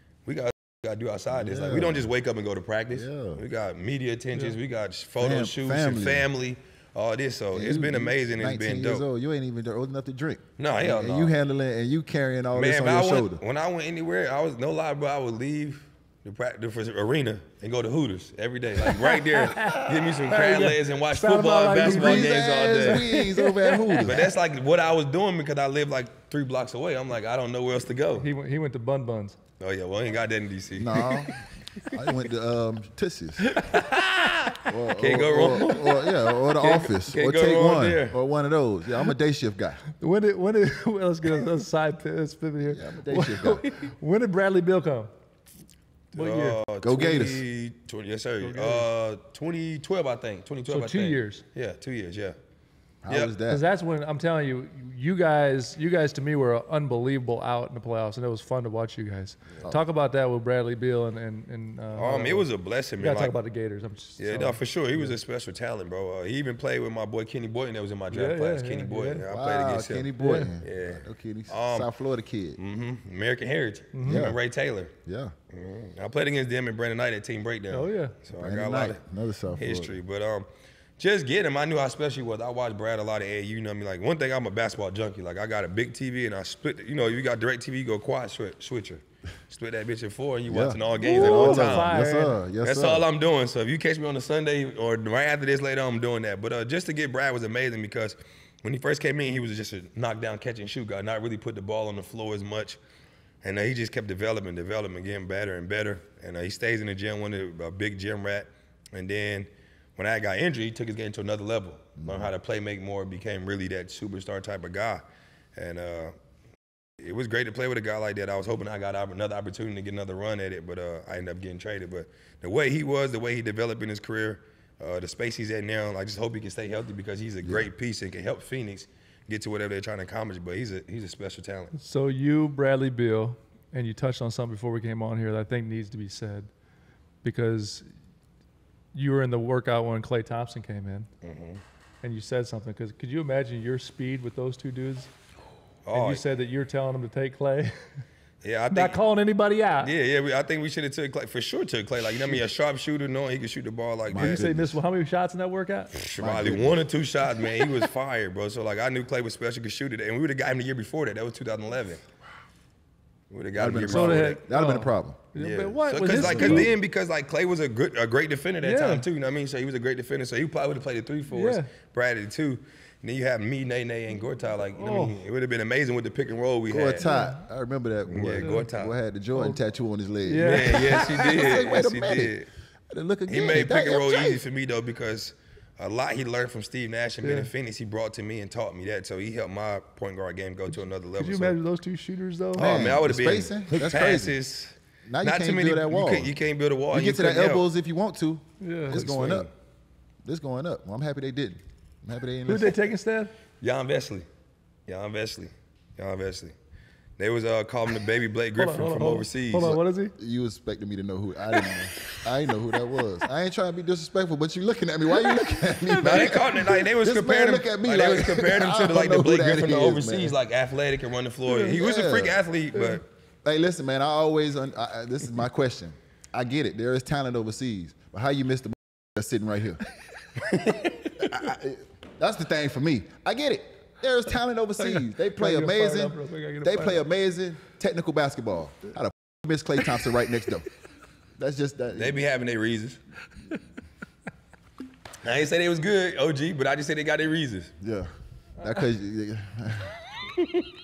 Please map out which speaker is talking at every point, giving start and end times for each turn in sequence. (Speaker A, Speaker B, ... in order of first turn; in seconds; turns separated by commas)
Speaker A: 0.2-9.1, Speaker B: 1.3-2.1, Speaker B: 2.9-3.4, Speaker B: 5.2-6.3, Speaker B: 7.5-13.4, Speaker A: 10.6-11.3, Speaker A: 12.5-23.1, Speaker C: 18.8-24.2, Speaker B: 21.8-24.3, Speaker A: 24.0-28.3, Speaker C: 28.2-29.4, Speaker A: 29.6-31.1, Speaker B: 30.8-33.6, Speaker C: 31.1-31.3, Speaker C: 33.5-34.6, Speaker B: 34.7-39.8, Speaker A: 35.0-38.1, Speaker C: 39.9-45.1, Speaker B: 42.6-43.7, Speaker C: 46.1-46.6, Speaker A: 46.1-52.4, Speaker B: 46.8-47.4, Speaker C: 48.4-48.9, Speaker C: 50.7-51.4, Speaker B: 53.0-53.6, Speaker A: 53.1-53.4, Speaker C: 53.5-65.2, Speaker A: 61.9-63.4, Speaker A: 64.2-71.9, Speaker C: 68.1-69.2, Speaker B: 69.3-72.6, Speaker C: 70.2-70.5, Speaker A: 72.6-74.9, Speaker C: 73.9-74.3, Speaker B: 74.0-74.4, Speaker B: 75.0-75.3, Speaker A: 75.5-79.0, Speaker C: 77.7-78.2, Speaker B: 78.3-80.0, Speaker A: 79.5-80.5, Speaker A: 81.0-92.0, Speaker B: 90.5-93.1, Speaker C: 91.0-92.4, Speaker A: 92.6-102.8, Speaker A: 103.4-115.0, Speaker B: 112.0-112.3, Speaker A: 115.5-116.1, Speaker A: 117.0-131.7, Speaker B: 127.4-127.7, Speaker C: 131.7-136.5, Speaker C: 137.2-137.9, Speaker C: 138.9-141.1, Speaker A: 141.2-141.6, Speaker C: 142.0-145.1, Speaker A: 145.8-146.2, Speaker C: 145.9-147.7, Speaker A: 148.4-149.0, Speaker C: 148.7-149.9, Speaker A: 149.8-154.5, Speaker B: 154.1-154.8, Speaker C: 154.1-155.9, Speaker A: 155.9-162.0, Speaker B: 156.2-156.8, Speaker A: 163.3-164.4, Speaker B: 163.6-165.2, Speaker C: 163.9-166.7, Speaker A: 165.3-177.0, Speaker B: 166.1-166.7, Speaker C: 168.6-169.1, Speaker C: 171.3-171.7, Speaker C: 174.7-175.2, Speaker B: 176.7-182.4, Speaker C: 177.0-177.4, Speaker A: 178.1-178.9, Speaker C: 178.3-178.7, Speaker C: 179.3-179.6, Speaker C: 180.3-181.7, Speaker A: 180.3-182.5, Speaker B: 182.9-184.4, Speaker A: 183.3-191.6, Speaker C: 187.2-187.5, Speaker C: 191.2-192.7, Speaker A: 192.5-197.7, Speaker B: 192.6-194.4, Speaker B: 195.1-196.3, Speaker B: 196.9-199.5, Speaker C: 198.6-199.1, Speaker A: 198.9-199.5, Speaker B: 200.2-202.8, Speaker C: 202.4-203.3, Speaker A: 203.6-204.3, Speaker A: 204.9-206.5, Speaker A: 207.2-209.8, Speaker C: 208.6-210.1, Speaker B: 209.6-220.3, Speaker C: 215.2-216.8, Speaker A: 216.0-223.1, Speaker C: 221.5-221.8, Speaker B: 221.6-222.4, Speaker C: 222.7-223.0, Speaker B: 223.4-229.8, Speaker A: 230.4-231.0, Speaker B: 231.2-240.7, Speaker C: 234.8-237.0, Speaker B: 241.3-242.2, Speaker A: 241.9-243.0, Speaker A: 245.2-247.7, Speaker B: 247.8-250.0